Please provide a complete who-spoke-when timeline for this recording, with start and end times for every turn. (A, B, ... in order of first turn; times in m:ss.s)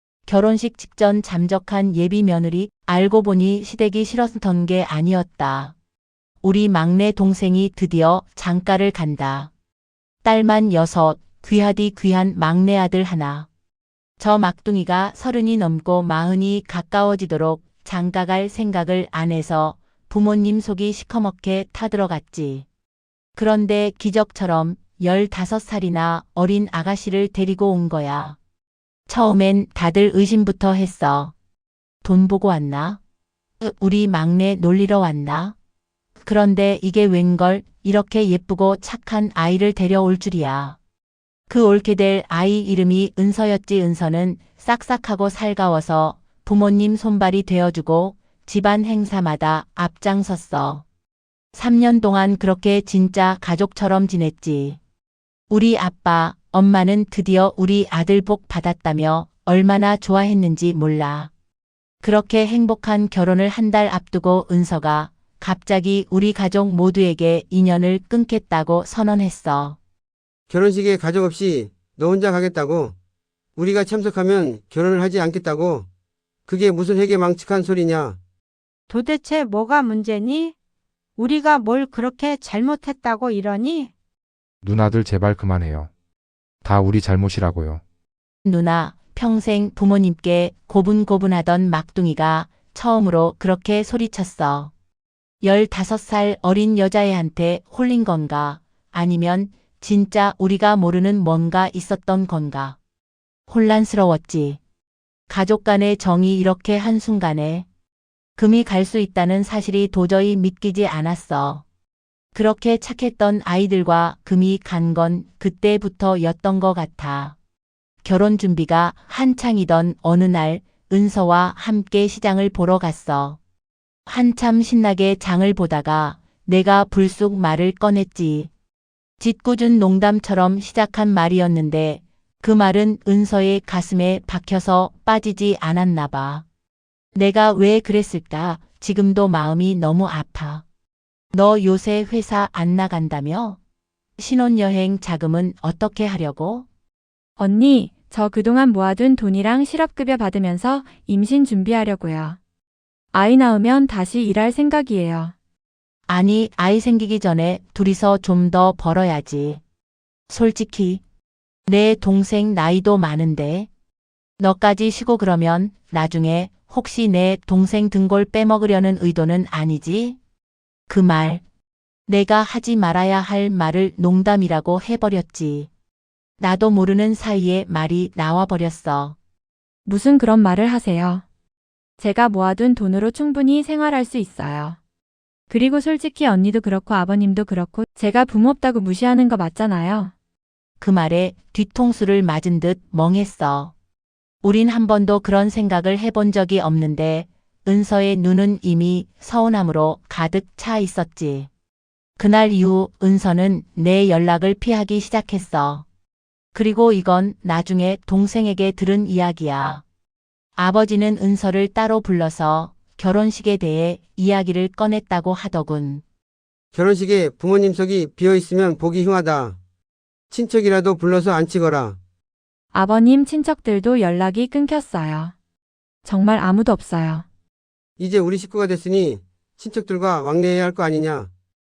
0:00.3-0:05.7 A
0:06.4-0:09.5 A
0:10.2-0:13.5 A
0:14.2-0:22.6 A
0:23.4-0:28.4 A
0:29.1-0:31.3 A
0:32.0-0:33.0 A
0:33.6-0:35.6 A
0:36.2-0:40.8 A
0:41.5-0:50.8 A
0:51.5-0:54.8 A
0:55.5-1:01.3 A
1:02.0-1:09.8 A
1:10.5-1:12.9 B
1:13.6-1:15.9 B
1:16.5-1:18.2 B
1:18.9-1:20.5 C
1:21.2-1:23.9 C
1:24.6-1:25.9 D
1:26.6-1:27.8 D
1:28.4-1:34.7 A
1:35.4-1:42.8 A
1:43.5-1:44.6 A
1:45.3-1:47.7 A
1:48.4-1:51.6 A
1:52.3-1:57.4 A
1:58.0-2:03.4 A
2:04.1-2:08.5 A
2:09.2-2:16.4 A
2:17.2-2:20.6 A
2:21.3-2:23.6 A
2:24.2-2:26.7 A
2:27.4-2:32.4 E
2:33.1-2:35.3 E
2:36.1-2:39.6 A
2:40.3-2:41.0 A
2:41.7-2:43.7 A
2:44.4-2:50.2 A
2:50.9-2:51.4 A
2:52.1-2:55.7 A
2:56.4-2:59.2 A
2:59.9-3:01.2 E
3:02.0-3:04.8 E
3:05.5-3:10.1 E
3:10.8-3:13.7 A
3:14.4-3:21.5 A
3:22.2-3:25.8 A
3:26.5-3:29.8 A
3:30.6-3:36.0 A
3:36.7-3:39.6 B
3:40.3-3:42.0 B
3:42.7-3:45.3 E
3:46.0-3:47.2 E
3:48.0-3:51.3 B